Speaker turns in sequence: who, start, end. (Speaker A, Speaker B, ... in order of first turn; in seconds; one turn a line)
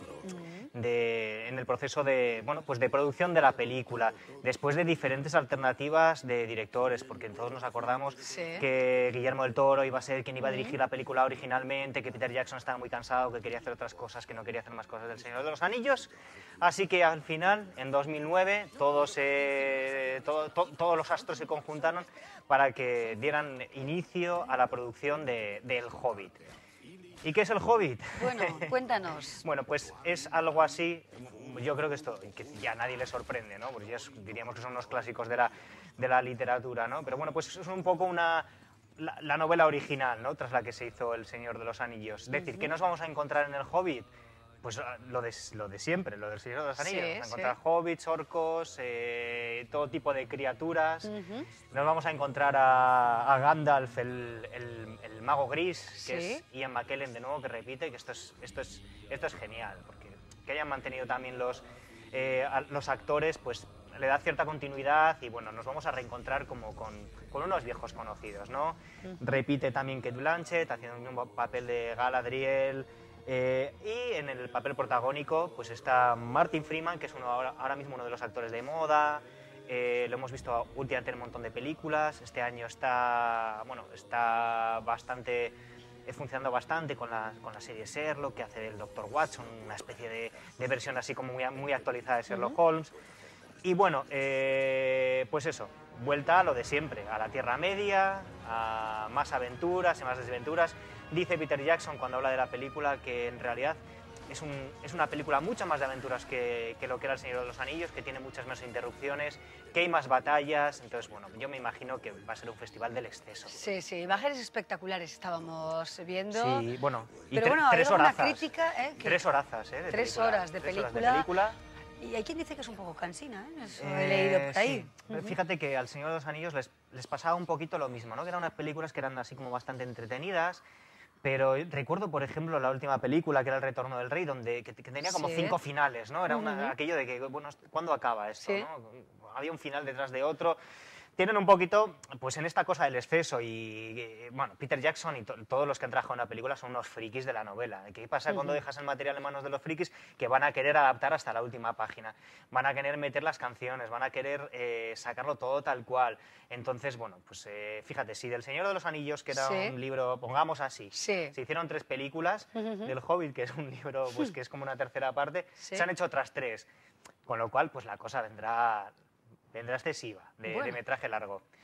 Speaker A: 0.2-0.7
Speaker B: 0.7-26.4
Speaker A: 8.2-8.7
Speaker A: 10.4-10.8
Speaker B: 27.2-28.7
Speaker A: 28.1-29.4
Speaker B: 29.4-44.1
Speaker A: 42.3-42.7
Speaker B: 44.6-51.1
Speaker A: 46.8-47.5
Speaker A: 51.0-51.5
Speaker B: 51.7-92.9
Speaker A: 56.0-56.4
Speaker A: 92.3-92.5
Speaker B: 93.6-113.6
Speaker A: 113.5-116.7
Speaker B: 116.3-121.6
Speaker A: 117.3-119.2
Speaker A: 119.9-121.3
Speaker A: 122.0-125.3
Speaker B: 123.8-130.6
Speaker B: 131.2-140.6
Speaker A: 135.0-135.6
Speaker A: 136.3-136.7
Speaker B: 141.2-166.7
Speaker A: 148.3-148.6
Speaker A: 159.3-159.7
Speaker A: 160.9-161.3
Speaker A: 162.6-162.9
Speaker A: 165.6-165.9
Speaker B: 167.2-168.9
Speaker B: 169.5-171.4
Speaker A: 170.5-170.8